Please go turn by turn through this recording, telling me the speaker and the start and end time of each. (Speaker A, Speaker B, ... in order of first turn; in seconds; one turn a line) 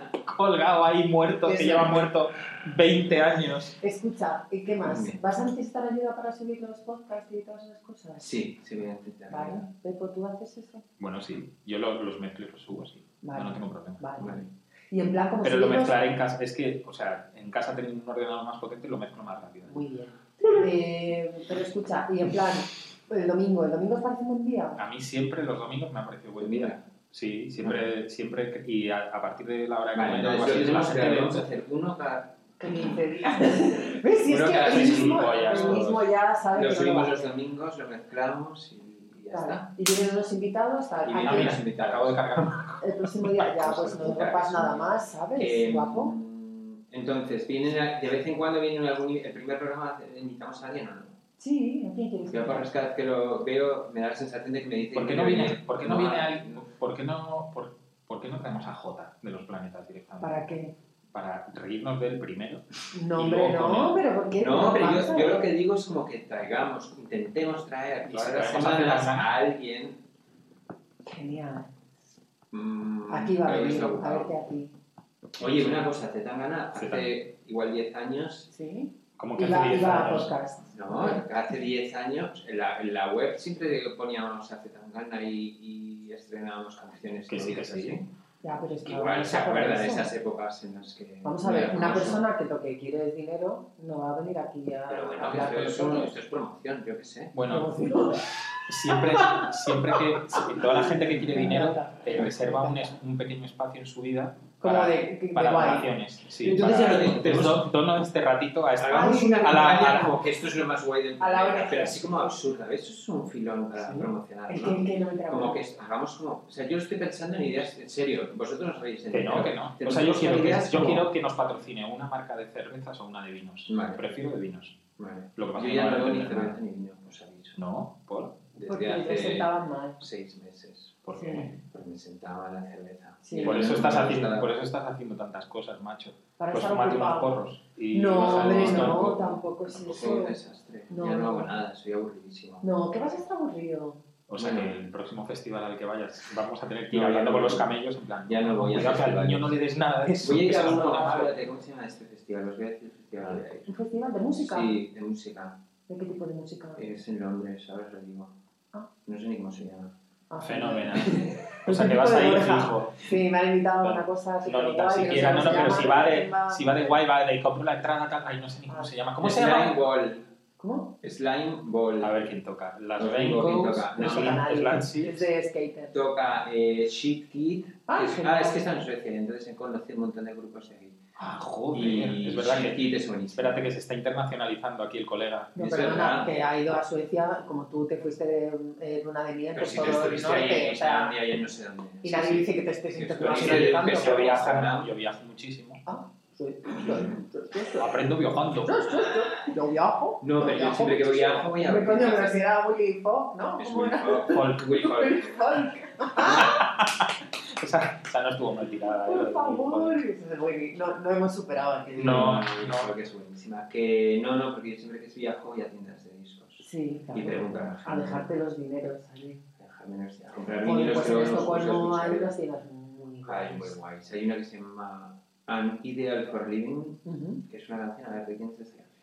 Speaker A: 0.2-3.8
Speaker B: 1.4-2.0
Speaker B: 3.8-8.3
Speaker C: 4.8-5.2
Speaker C: 8.2-9.7
Speaker B: 9.3-10.8
Speaker A: 11.0-14.0
Speaker B: 13.2-16.1
Speaker C: 14.2-14.5
Speaker A: 15.4-19.8
Speaker B: 19.6-24.8
Speaker A: 24.8-31.4
Speaker C: 26.4-26.8
Speaker C: 29.9-32.9
Speaker B: 32.6-37.3
Speaker C: 34.2-35.9
Speaker A: 34.6-36.1
Speaker C: 36.5-39.7
Speaker B: 39.3-41.6
Speaker C: 41.0-42.2
Speaker A: 41.2-42.8
Speaker B: 42.8-46.1
Speaker C: 43.5-51.1
Speaker B: 51.4-52.7
Speaker C: 52.3-56.6
Speaker A: 54.9-60.4
Speaker B: 60.2-60.7
Speaker A: 61.1-64.0
Speaker B: 62.9-65.5
Speaker C: 64.4-70.0
Speaker A: 68.1-69.3
Speaker B: 71.0-71.8
Speaker C: 72.5-74.3
Speaker B: 73.1-74.7
Speaker C: 75.4-78.5
Speaker A: 76.7-77.1
Speaker B: 78.5-81.2
Speaker A: 79.2-80.3
Speaker C: 80.7-88.1
Speaker A: 87.3-88.0
Speaker B: 88.4-90.1
Speaker C: 88.8-92.3
Speaker B: 91.2-96.1
Speaker C: 94.9-97.4
Speaker A: 97.3-97.8
Speaker B: 97.5-98.3
Speaker A: 98.7-110.2
Speaker B: 100.3-103.0
Speaker B: 104.6-105.9
Speaker C: 106.4-107.7
Speaker C: 108.8-121.0
Speaker B: 108.9-109.9
Speaker B: 111.2-112.3
Speaker B: 113.7-115.7
Speaker A: 119.1-124.8
Speaker C: 123.7-124.0
Speaker C: 125.0-127.6
Speaker A: 125.3-126.6
Speaker A: 127.5-128.4
Speaker C: 128.5-134.5
Speaker B: 128.6-130.0
Speaker A: 131.1-131.4
Speaker B: 131.1-131.5
Speaker B: 133.2-133.6
Speaker A: 133.4-139.4
Speaker B: 136.4-137.3
Speaker B: 137.9-140.3
Speaker C: 138.1-143.2
Speaker B: 140.9-141.5
Speaker B: 142.6-144.0
Speaker A: 144.3-151.4
Speaker C: 144.4-144.7
Speaker C: 146.9-147.7
Speaker C: 148.3-149.5
Speaker C: 150.2-153.7
Speaker B: 153.7-154.7
Speaker C: 154.4-155.6
Speaker B: 155.9-156.8
Speaker C: 156.8-158.3
Speaker C: 159.1-159.9
Speaker B: 160.3-167.0
Speaker A: 160.4-163.1
Speaker A: 163.8-169.8
Speaker C: 169.2-170.2
Speaker B: 170.6-170.9
Speaker C: 171.0-172.1
Speaker A: 172.0-175.2
Speaker C: 173.0-174.4
Speaker B: 174.0-175.9
Speaker C: 175.9-181.0
Speaker B: 177.9-178.6
Speaker A: 181.2-185.6
Speaker C: 181.7-183.6
Speaker B: 185.5-191.1
Speaker C: 185.6-186.3
Speaker C: 189.5-194.9
Speaker B: 192.0-194.6
Speaker A: 193.2-195.8
Speaker B: 195.8-198.0
Speaker A: 197.8-199.0
Speaker B: 198.6-206.6
Speaker C: 200.2-202.4
Speaker C: 203.6-205.4
Speaker A: 204.3-204.7
Speaker A: 206.2-210.0
Speaker B: 209.1-212.3
Speaker C: 211.9-218.3
Speaker A: 212.0-212.9
Speaker B: 216.6-219.4
Speaker C: 219.6-222.3
Speaker B: 220.6-223.8
Speaker C: 223.2-228.9
Speaker B: 227.0-227.4